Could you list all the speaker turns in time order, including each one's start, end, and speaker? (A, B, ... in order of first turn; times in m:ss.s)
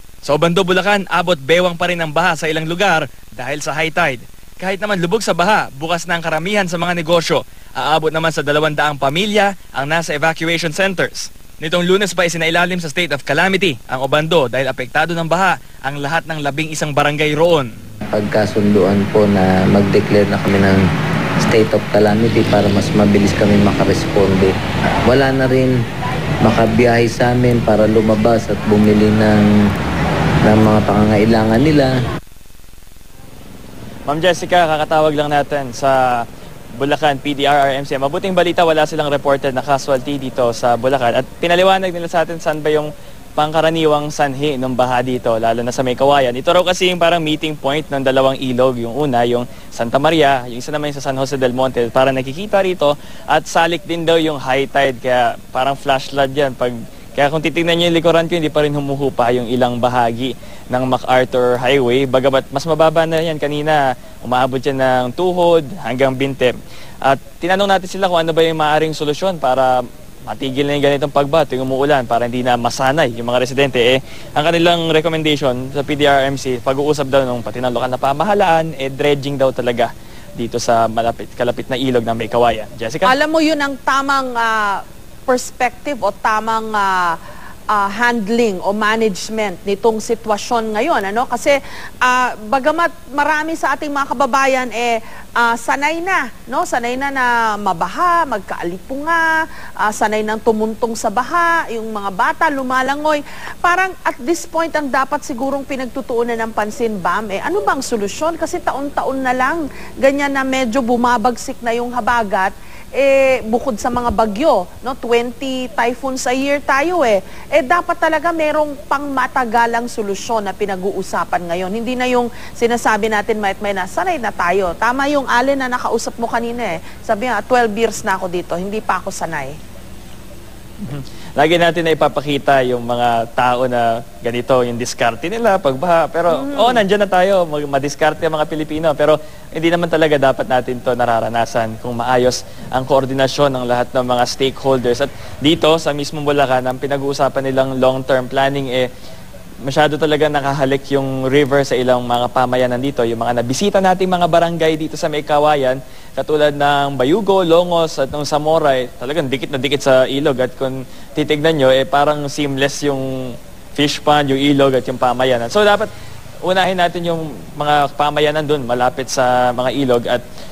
0:00.2-0:17.7 A
0:18.1-0:20.8 B
0:21.4-0:25.8 B
0:26.4-0:29.5 B
0:30.4-0:32.0 B
0:34.1-0:36.0 A
0:36.8-1:06.5 A
1:07.0-1:09.7 A
1:10.3-1:23.1 A
1:23.0-1:27.2 C
1:27.7-1:39.2 C
1:39.8-2:09.5 C
2:10.8-2:28.9 A
2:16.3-2:16.8 C
2:29.6-2:43.0 A
2:43.8-2:45.9 A
2:46.4-2:50.2 A